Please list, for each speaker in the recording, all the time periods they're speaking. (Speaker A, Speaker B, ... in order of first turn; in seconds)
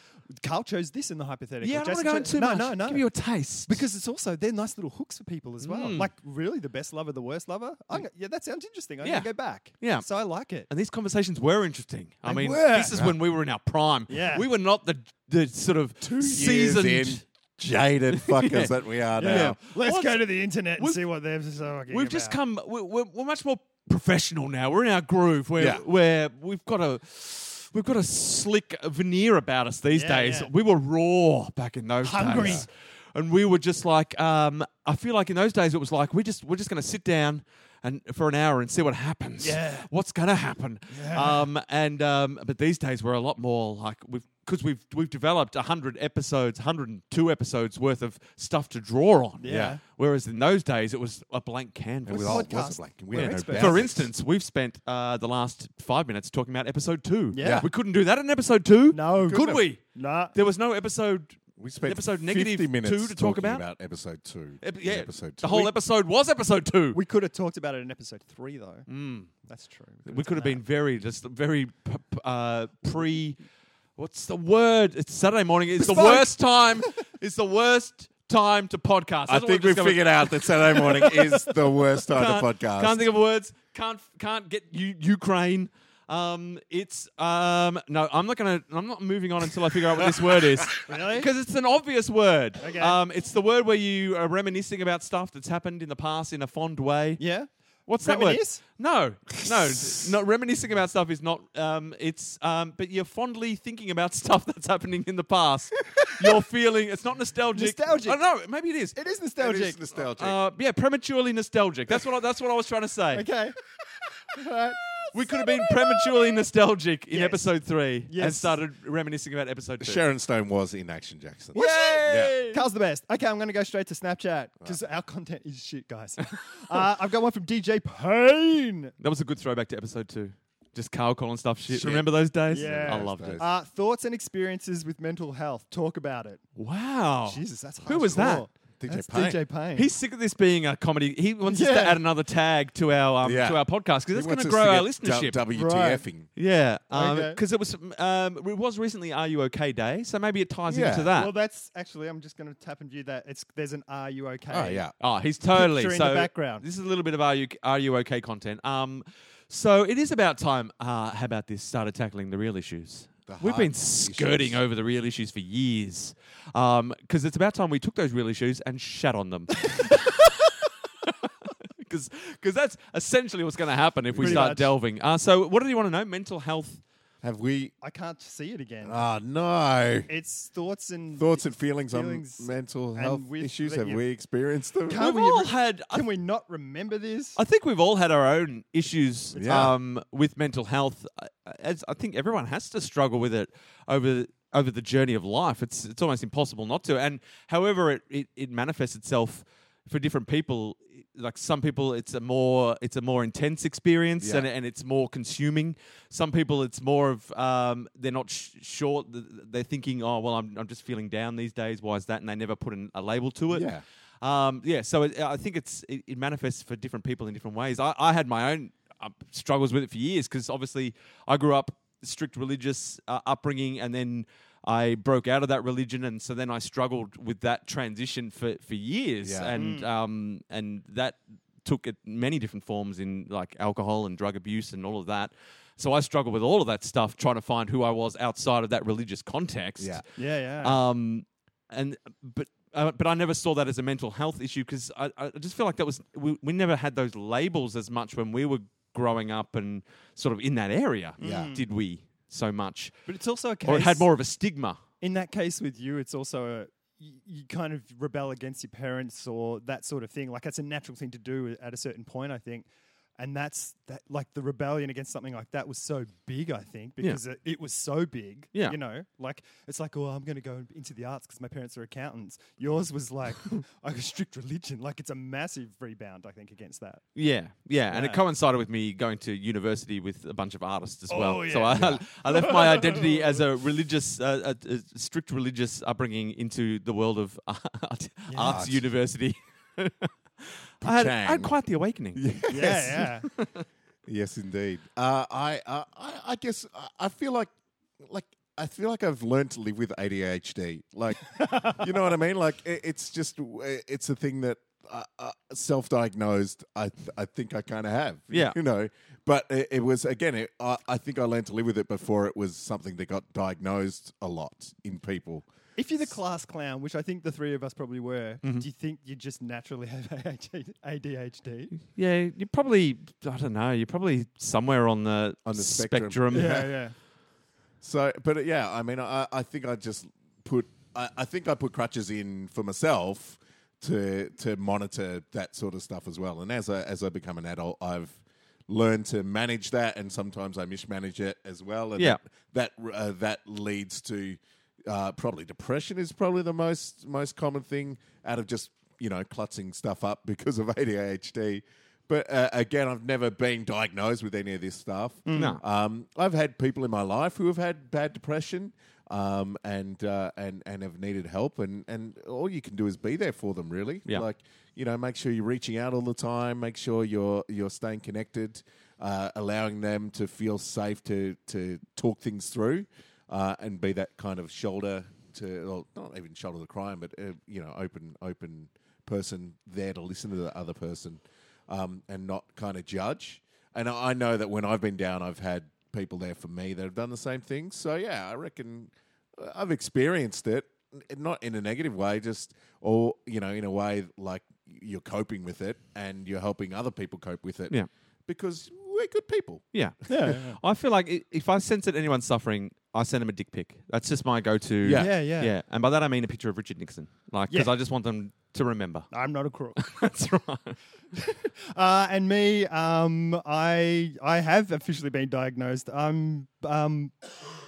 Speaker A: 0.4-3.1, 3.7-10.7, 12.2-13.0, 14.1-14.5, 19.2-22.4, 29.9-30.5, 32.0-32.6, 39.4-39.9, 40.9-41.5, 49.4-49.8, 52.1-53.9, 57.3-57.7, 58.9-60.4, 66.9-68.9, 69.5-70.6, 75.8-76.4, 90.8-91.3, 92.6-93.0, 97.2-97.5, 98.0-98.6, 107.5-108.3, 108.9-109.8, 113.1-113.6, 114.3-116.3, 117.1-117.4, 118.1-118.6, 121.5-128.9, 132.5-136.4, 137.2-139.9, 141.5-142.0, 145.5-146.1, 146.9-147.4, 151.1-154.9, 155.5-156.7, 174.2-174.7, 177.8-179.1, 180.1-184.0, 184.9-187.4, 229.5-229.9, 240.2-240.8, 251.2-251.7, 253.1-254.1, 255.0-262.7, 263.2-277.1, 277.9-278.2, 281.1-283.2, 288.3-288.6, 292.5-293.3, 301.4-301.8, 315.8-321.8, 326.3-326.9, 355.3-355.6, 400.1-400.6, 405.0-405.5, 409.1-409.8, 411.1-417.1
Speaker B: 1.6-3.8, 5.6-6.1, 9.0-10.1, 10.7-17.2, 18.1-21.0, 21.9-52.5, 53.1-63.6, 64.6-67.0, 68.9-69.3, 70.1-73.4, 74.0-97.2, 97.9-109.0, 110.2-113.3, 115.1-120.0, 121.5-122.7, 129.0-133.4, 136.6-138.5, 139.8-145.4, 146.4-151.3, 155.0-176.8, 184.9-186.1, 187.4-240.1, 240.6-253.1, 253.6-254.8, 277.2-293.6, 308.3-308.6, 321.9-326.7, 355.4-355.6, 399.7-409.1, 409.8-410.8
Speaker C: 16.0-19.6, 25.6-25.8, 32.3-32.7, 49.5-49.8, 52.0-54.1, 57.4-57.7, 59.2-59.6, 61.6-65.7, 79.3-83.0, 109.4-110.4, 119.8-122.4, 131.7-133.5, 138.8-139.4, 143.2-143.6, 144.1-146.3, 150.7-151.1, 154.5-154.9, 163.3-164.6, 174.1-174.6, 177.2-177.7, 178.8-180.1, 181.1-185.1, 189.3-189.8, 204.2-204.5, 213.5-213.8, 229.2-229.7, 251.2-251.6, 288.4-288.8, 290.8-291.5, 292.1-293.1, 294.1-297.5, 298.0-315.5, 325.5-326.8, 327.8-397.8, 398.3-399.6, 404.8-405.1